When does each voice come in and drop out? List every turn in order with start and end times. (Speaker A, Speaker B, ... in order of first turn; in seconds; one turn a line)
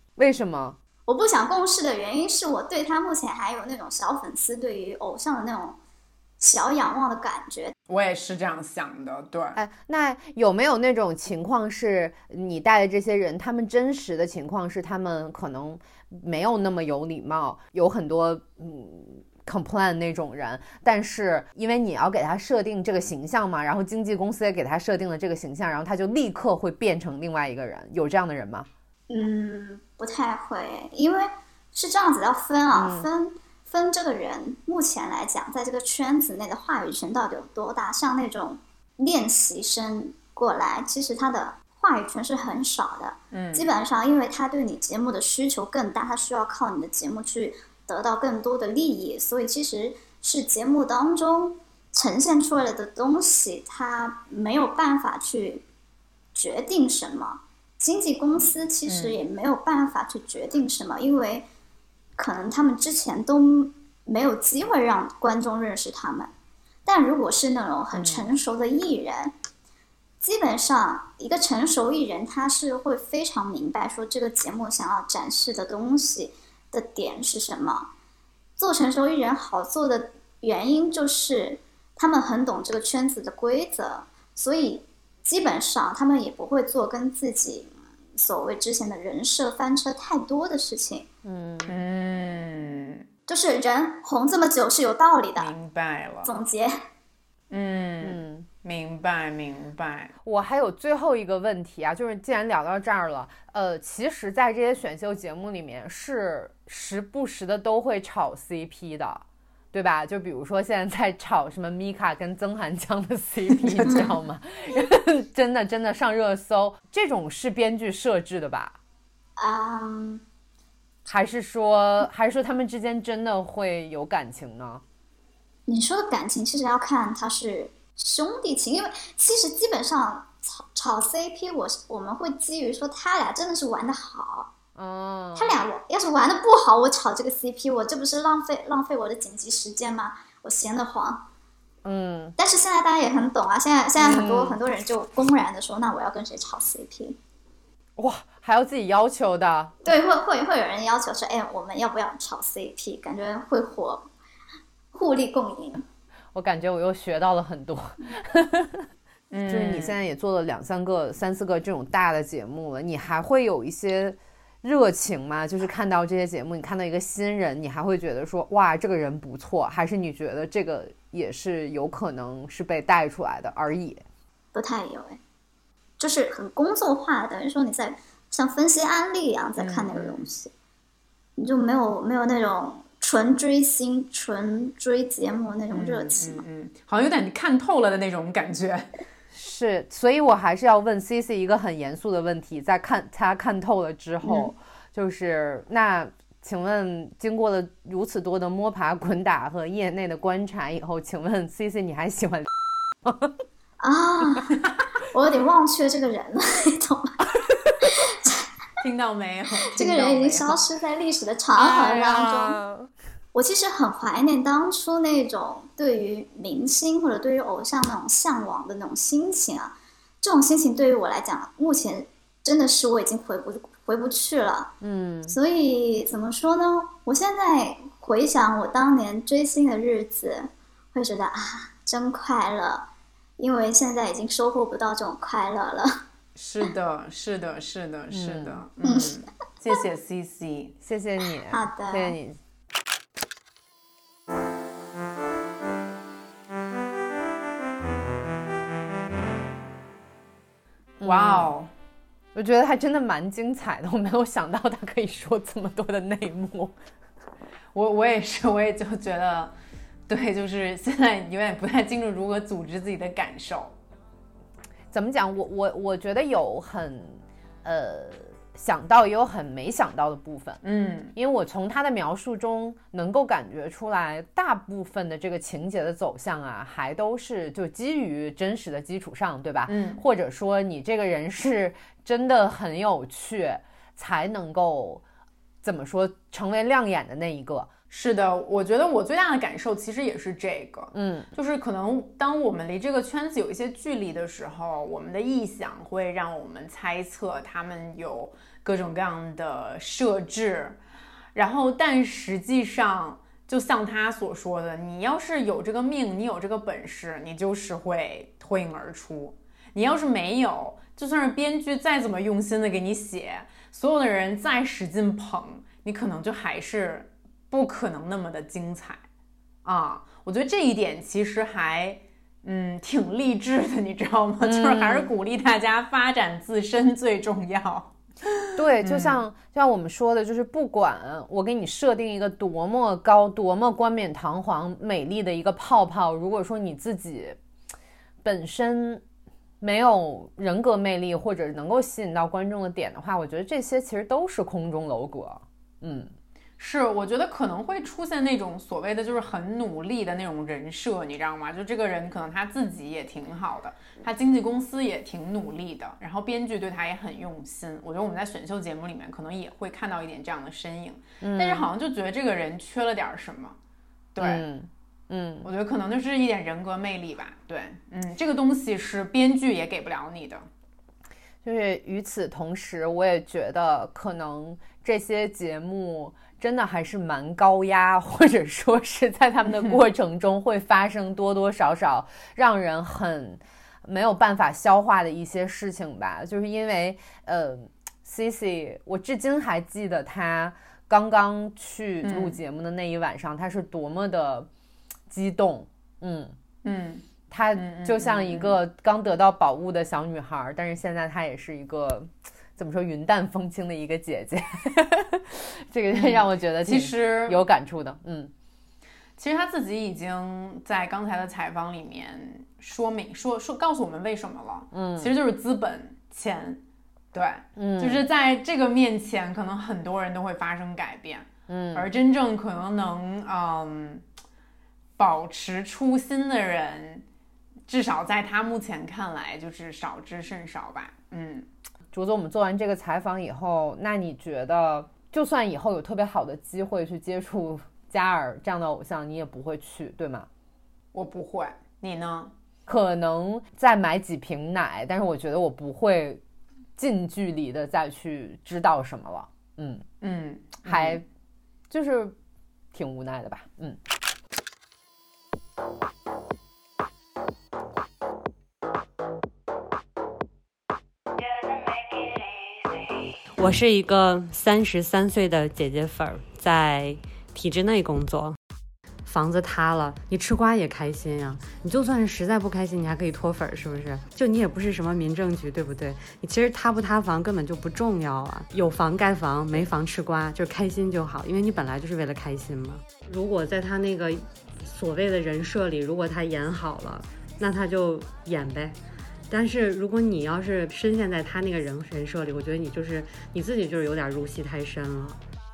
Speaker A: 0.2-0.8
Speaker B: 1.1-5.8
Speaker B: 6.4-7.7
Speaker C: 7.9-9.6
Speaker A: 9.6-28.7
Speaker B: 29.1-55.6
Speaker A: 32.7-33.1
Speaker C: 43.3-43.7
Speaker B: 56.4-61.5
Speaker C: 58.9-59.2
Speaker B: 62.2-66.3
Speaker B: 66.9-69.3
Speaker C: 67.9-68.3
Speaker B: 70.2-77.9
Speaker B: 78.6-91.1
Speaker A: 91.2-91.8
Speaker C: 91.7-93.0
Speaker B: 93.3-95.5
Speaker C: 95.4-96.3
Speaker B: 96.2-96.7
Speaker C: 97.5-100.1
Speaker A: 98.0-98.5
Speaker A: 100.2-118.8
Speaker C: 113.5-114.1
Speaker B: 119.4-120.2
Speaker A: 121.0-124.8
Speaker B: 125.7-134.5
Speaker A: 134.8-135.6
Speaker B: 135.4-141.3
Speaker A: 141.8-142.4
Speaker B: 142.4-147.2
Speaker A: 144.0-144.6
Speaker A: 148.0-149.9
Speaker B: 149.8-154.1
Speaker B: 154.9-155.8
Speaker A: 156.3-158.9
Speaker C: 159.3-160.0
Speaker A: 159.5-174.0
Speaker B: 174.5-175.2
Speaker B: 176.0-180.5
Speaker C: 179.6-180.3
Speaker B: 181.4-186.4
Speaker C: 185.7-188.9
Speaker A: 189.3-202.5
Speaker A: 203.1-203.3
Speaker B: 203.8-204.5
Speaker B: 205.1-207.1
Speaker B: 207.8-208.4
Speaker C: 208.8-210.6
Speaker B: 209.8-212.6
Speaker A: 211.6-212.9
Speaker C: 211.7-212.4
Speaker B: 213.3-224.8
Speaker A: 224.8-225.4
Speaker B: 225.3-236.0
Speaker C: 236.4-240.8
Speaker A: 238.1-238.6
Speaker B: 238.8-239.2
Speaker A: 240.8-242.4
Speaker B: 241.5-242.2
Speaker A: 251.0-251.5
Speaker C: 251.0-251.7
Speaker A: 252.3-256.8
Speaker C: 257.8-259.6
Speaker C: 260.1-263.8
Speaker A: 264.9-270.6
Speaker C: 270.6-271.1
Speaker A: 271.1-285.0
Speaker C: 279.7-280.0
Speaker A: 285.6-287.7
Speaker C: 287.9-300.8
Speaker A: 290.9-291.3
Speaker C: 301.4-319.1
Speaker C: 319.6-328.0
Speaker A: 324.4-325.1
Speaker A: 328.6-337.4
Speaker C: 328.8-329.2
Speaker A: 338.2-339.0
Speaker A: 339.6-346.1
Speaker C: 346.6-363.6
Speaker A: 361.2-361.7
Speaker C: 364.1-364.5
Speaker A: 364.2-365.5
Speaker C: 365.4-370.5
Speaker A: 371.4-394.5
Speaker C: 379.5-379.8
Speaker C: 392.0-392.4
Speaker A: 395.1-396.4
Speaker C: 396.6-397.1
Speaker A: 397.3-408.3
Speaker C: 397.6-398.6
Speaker C: 405.9-407.5
Speaker C: 409.2-416.6
Speaker A: 414.7-415.1
Speaker C: 417.1-424.1
Speaker A: 417.6-418.1
Speaker A: 421.5-421.9
Speaker C: 425.0-427.1
Speaker C: 427.7-431.5
Speaker A: 431.9-440.3
Speaker C: 440.9-442.3
Speaker A: 442.7-446.2
Speaker A: 446.8-449.9
Speaker C: 450.0-451.0
Speaker A: 450.6-451.0
Speaker A: 451.7-452.2
Speaker A: 452.7-453.8
Speaker D: 463.3-468.4
Speaker D: 469.1-488.8
Speaker D: 489.3-495.2